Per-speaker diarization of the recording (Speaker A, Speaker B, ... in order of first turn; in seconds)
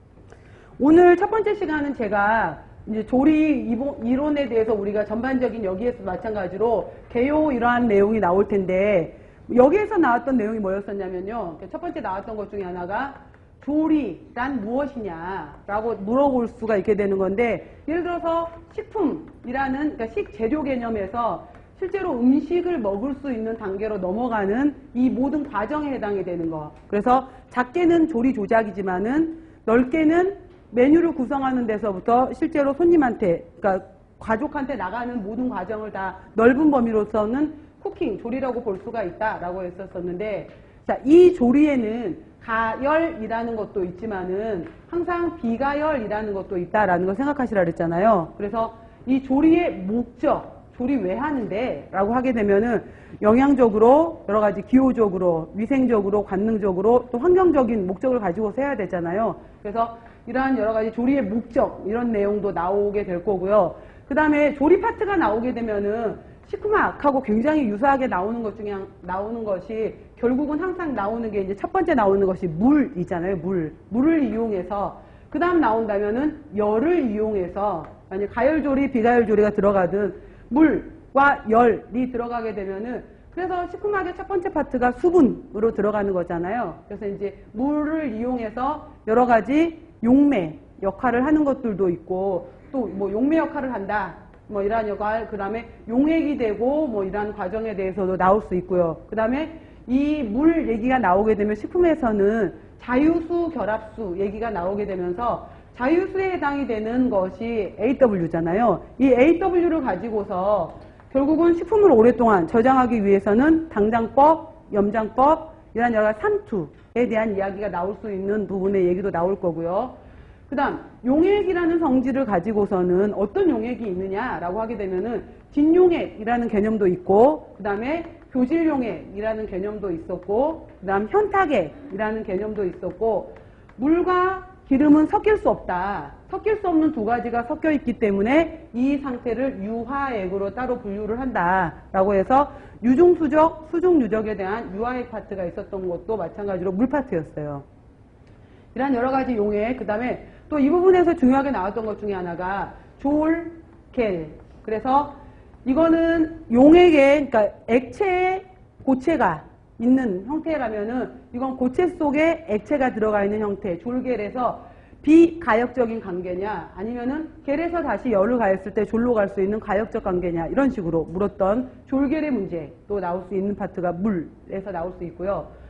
Speaker A: 0.8-120.0, 120.5-147.6, 148.7-175.5